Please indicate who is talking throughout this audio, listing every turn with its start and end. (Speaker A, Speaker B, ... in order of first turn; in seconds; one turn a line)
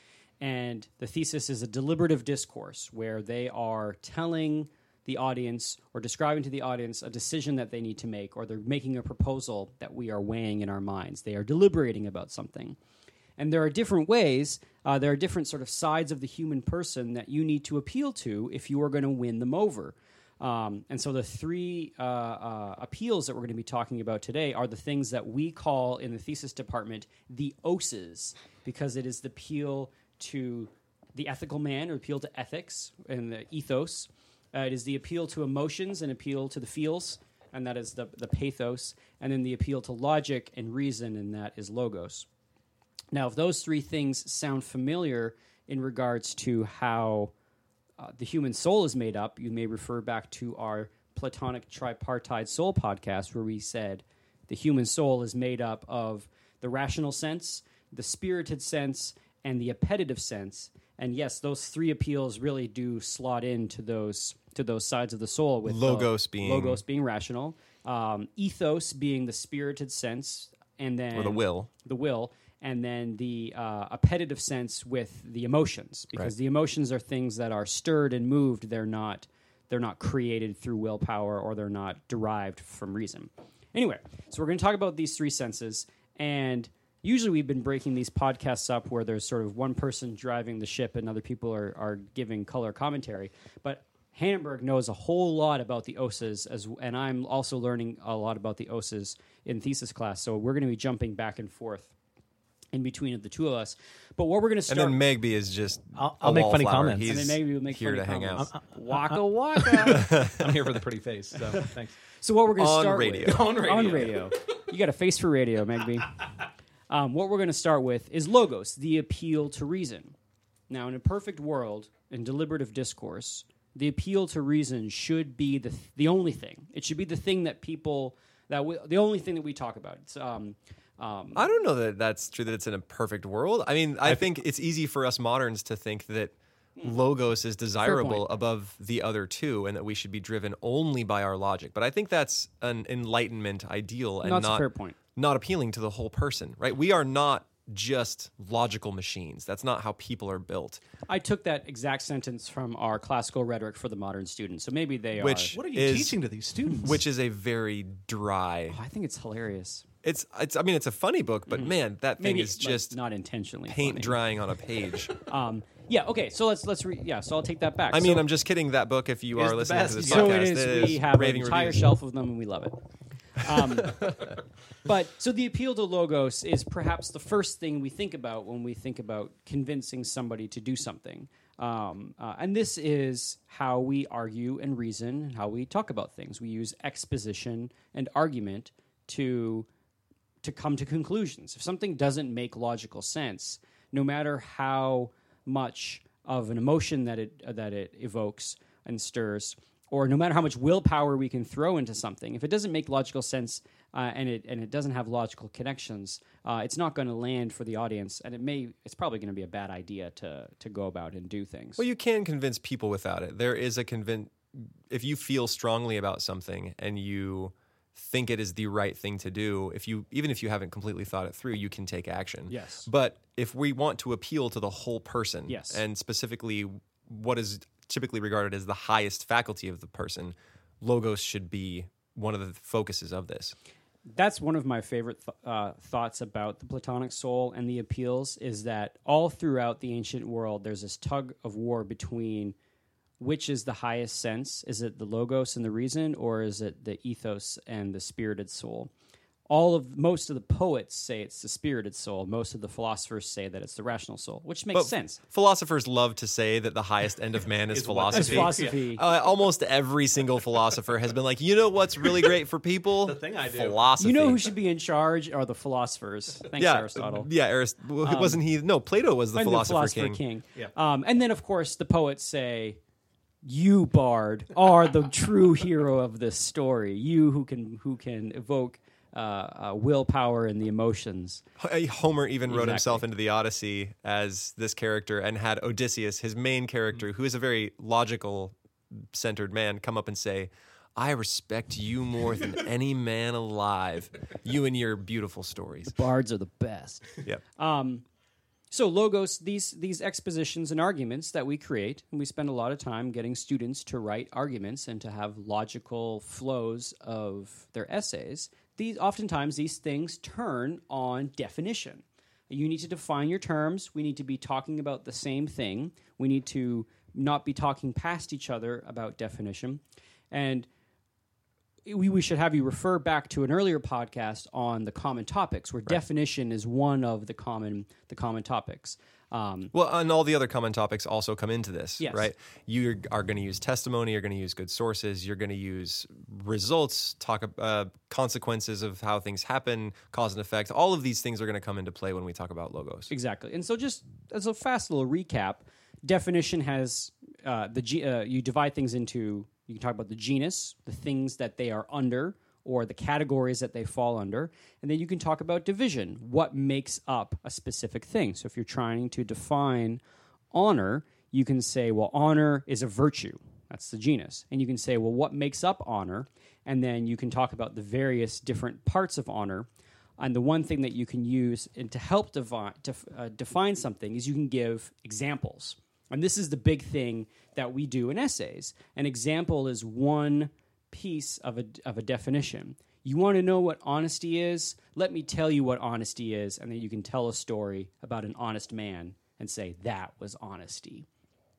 Speaker A: 0.4-12.8
Speaker A: 13.4-42.3
Speaker A: 43.1-47.3
Speaker A: 48.0-101.9
Speaker B: 65.7-66.8
Speaker B: 71.1-71.7
Speaker A: 102.7-105.0
Speaker B: 104.7-108.5
Speaker C: 105.9-107.1
Speaker A: 107.0-110.1
Speaker C: 108.4-112.0
Speaker B: 109.9-110.5
Speaker A: 112.2-116.2
Speaker B: 112.6-113.6
Speaker C: 113.3-114.3
Speaker A: 116.9-120.1
Speaker A: 120.7-131.5
Speaker B: 131.3-150.8
Speaker A: 137.8-138.2
Speaker A: 144.2-144.9
Speaker A: 151.1-155.6
Speaker B: 155.2-156.2
Speaker C: 155.5-157.0
Speaker B: 156.8-158.8
Speaker A: 158.7-159.8
Speaker B: 160.0-162.9
Speaker A: 161.5-164.2
Speaker B: 163.7-165.1
Speaker A: 165.2-168.3
Speaker B: 167.9-171.8
Speaker C: 169.3-171.8
Speaker A: 170.0-172.8
Speaker A: 173.3-189.7
Speaker A: 190.4-211.8
Speaker B: 211.8-233.6
Speaker A: 222.5-222.9
Speaker A: 225.5-225.8
Speaker A: 234.1-242.6
Speaker A: 243.2-248.9
Speaker A: 249.5-255.2
Speaker B: 254.7-264.5
Speaker C: 257.7-258.8
Speaker A: 258.1-259.0
Speaker C: 263.0-263.9
Speaker A: 264.0-267.3
Speaker B: 266.6-270.2
Speaker A: 268.0-268.4
Speaker A: 269.3-272.8
Speaker A: 273.4-281.4
Speaker B: 281.6-295.9
Speaker A: 282.5-283.0
Speaker A: 295.9-298.0
Speaker A: 298.7-320.7
Speaker A: 321.9-329.7
Speaker B: 329.7-343.1
Speaker A: 332.0-332.3
Speaker A: 343.1-360.0
Speaker A: 360.5-391.1